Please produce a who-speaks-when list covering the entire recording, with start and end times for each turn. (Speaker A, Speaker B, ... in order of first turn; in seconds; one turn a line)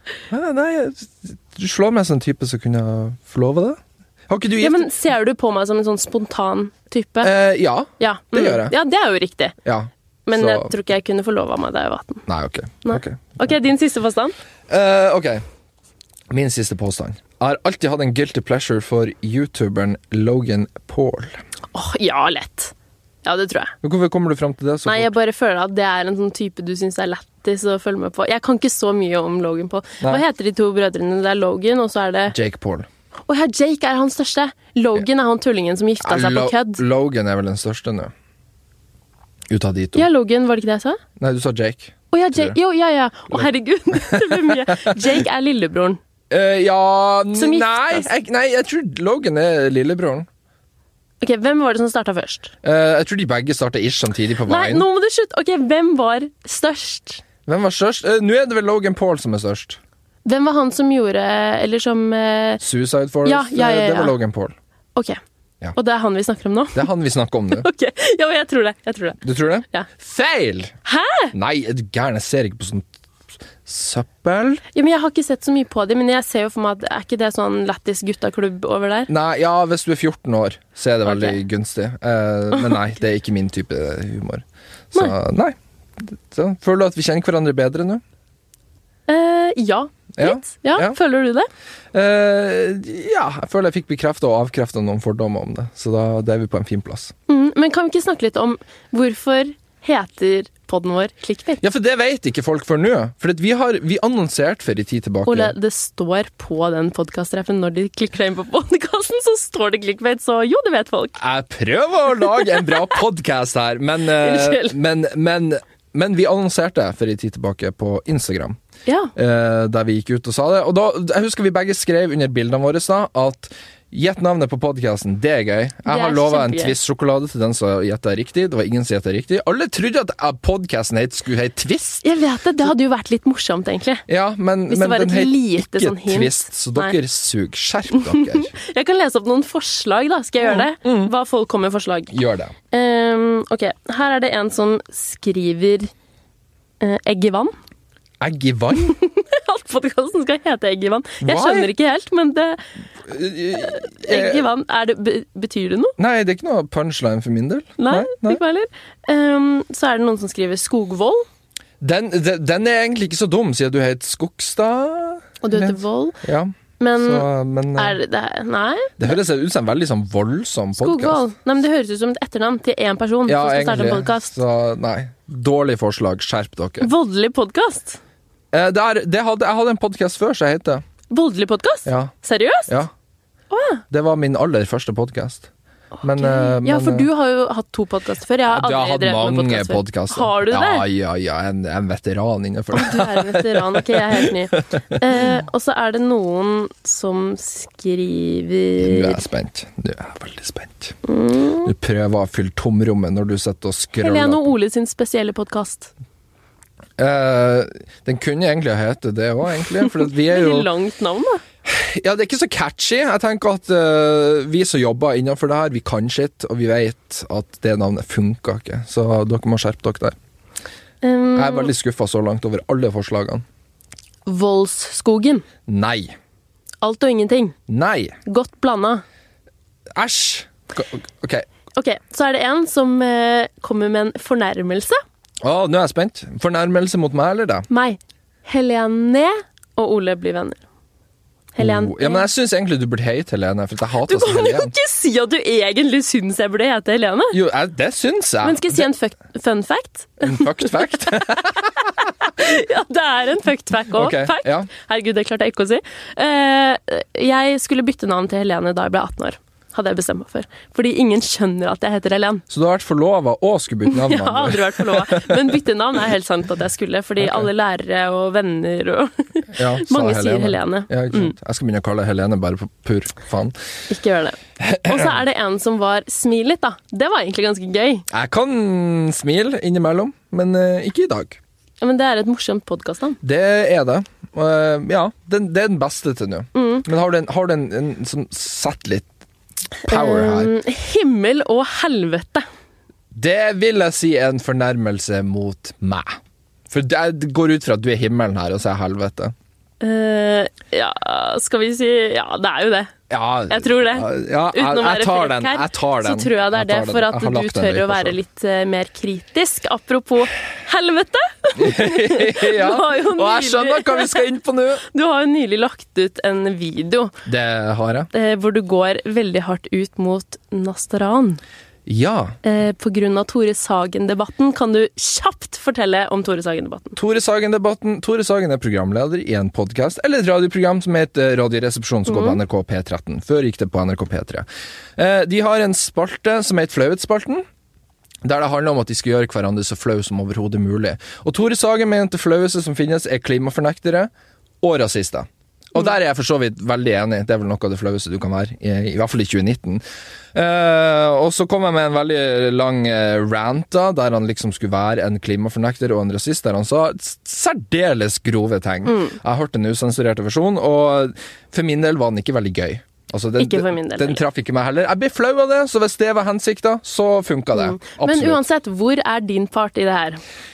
Speaker A: 0.3-4.9
Speaker B: 4.6-7.3
Speaker A: 7.2-8.7
Speaker B: 8.0-9.6
Speaker A: 9.7-10.7
Speaker B: 10.3-12.2
Speaker A: 12.3-13.5
Speaker B: 12.8-14.3
Speaker A: 14.7-15.4
Speaker A: 16.3-21.4
Speaker B: 21.7-23.7
Speaker A: 23.8-25.1
Speaker B: 24.9-32.4
Speaker A: 32.3-32.9
Speaker B: 33.3-36.8
Speaker A: 36.0-38.1
Speaker A: 39.5-40.1
Speaker B: 40.0-41.0
Speaker A: 41.2-42.6
Speaker B: 42.1-46.0
Speaker A: 43.3-45.0
Speaker A: 46.3-50.3
Speaker B: 47.3-48.1
Speaker B: 51.2-52.5
Speaker A: 52.6-54.9
Speaker B: 54.5-57.2
Speaker A: 57.5-59.8
Speaker B: 60.2-62.6
Speaker A: 62.6-64.5
Speaker B: 63.2-64.1
Speaker B: 65.8-66.9
Speaker A: 66.8-67.7
Speaker B: 67.5-69.9
Speaker A: 69.2-70.8
Speaker B: 70.8-71.3
Speaker A: 71.3-72.9
Speaker A: 73.6-74.6
Speaker B: 74.7-79.1
Speaker A: 79.1-88.0
Speaker B: 81.1-81.4
Speaker B: 89.1-91.5
Speaker A: 90.2-91.0
Speaker A: 91.9-97.1
Speaker B: 97.3-101.6
Speaker A: 101.6-105.5
Speaker B: 105.3-111.2
Speaker A: 111.2-118.6
Speaker B: 112.3-112.9
Speaker B: 114.2-114.8
Speaker B: 118.9-119.1
Speaker A: 119.2-132.0
Speaker B: 125.9-126.8
Speaker B: 132.0-134.1
Speaker A: 134.1-138.5
Speaker B: 134.7-136.9
Speaker B: 137.9-142.2
Speaker A: 140.4-141.1
Speaker A: 142.1-142.5
Speaker B: 142.7-145.9
Speaker B: 146.8-147.5
Speaker A: 148.2-149.0
Speaker B: 148.8-152.6
Speaker A: 151.2-151.7
Speaker A: 153.1-154.5
Speaker B: 153.6-155.9
Speaker A: 156.0-158.4
Speaker B: 157.8-161.2
Speaker A: 161.8-168.0
Speaker B: 165.4-166.2
Speaker B: 166.8-169.2
Speaker A: 169.0-171.2
Speaker B: 170.8-174.4
Speaker A: 173.3-176.9
Speaker B: 176.8-178.0
Speaker A: 178.5-180.8
Speaker B: 181.1-182.7
Speaker A: 181.9-182.1
Speaker B: 183.5-183.8
Speaker A: 183.9-185.5
Speaker A: 186.0-187.1
Speaker B: 186.1-190.8
Speaker A: 188.5-195.4
Speaker B: 192.7-199.2
Speaker A: 198.8-201.0
Speaker B: 201.0-201.7
Speaker A: 201.6-204.5
Speaker B: 204.0-205.9
Speaker A: 207.0-210.7
Speaker B: 209.8-211.4
Speaker A: 211.7-220.2
Speaker B: 221.0-221.7
Speaker A: 221.3-223.4
Speaker B: 224.3-225.4
Speaker A: 225.7-226.2
Speaker B: 226.8-227.6
Speaker A: 227.7-228.2
Speaker B: 228.2-229.0
Speaker A: 229.9-231.5
Speaker B: 231.8-235.0
Speaker A: 235.4-237.7
Speaker B: 237.7-240.6
Speaker B: 241.6-242.3
Speaker A: 241.6-244.7
Speaker B: 244.1-247.4
Speaker A: 247.3-248.8
Speaker B: 248.4-262.4
Speaker A: 250.2-252.0
Speaker A: 253.9-254.7
Speaker A: 262.5-265.6
Speaker B: 263.9-271.3
Speaker A: 267.2-267.5
Speaker A: 269.5-273.5
Speaker B: 273.9-278.1
Speaker A: 274.6-275.2
Speaker A: 278.1-281.4
Speaker B: 281.8-283.2
Speaker A: 283.2-289.1
Speaker B: 286.6-286.9
Speaker A: 289.8-290.5
Speaker B: 289.9-292.5
Speaker A: 293.1-296.2
Speaker A: 296.7-299.3
Speaker B: 299.8-302.9
Speaker A: 303.1-308.2
Speaker B: 303.5-314.3
Speaker A: 311.6-314.8
Speaker B: 314.9-317.1
Speaker A: 317.3-318.1
Speaker B: 318.1-321.4
Speaker A: 321.9-322.4
Speaker B: 322.4-327.0
Speaker A: 327.0-337.4
Speaker B: 332.1-332.4
Speaker A: 338.2-344.1
Speaker A: 344.6-349.8
Speaker A: 350.3-368.4
Speaker B: 358.9-359.1
Speaker B: 363.4-364.2
Speaker B: 367.6-370.2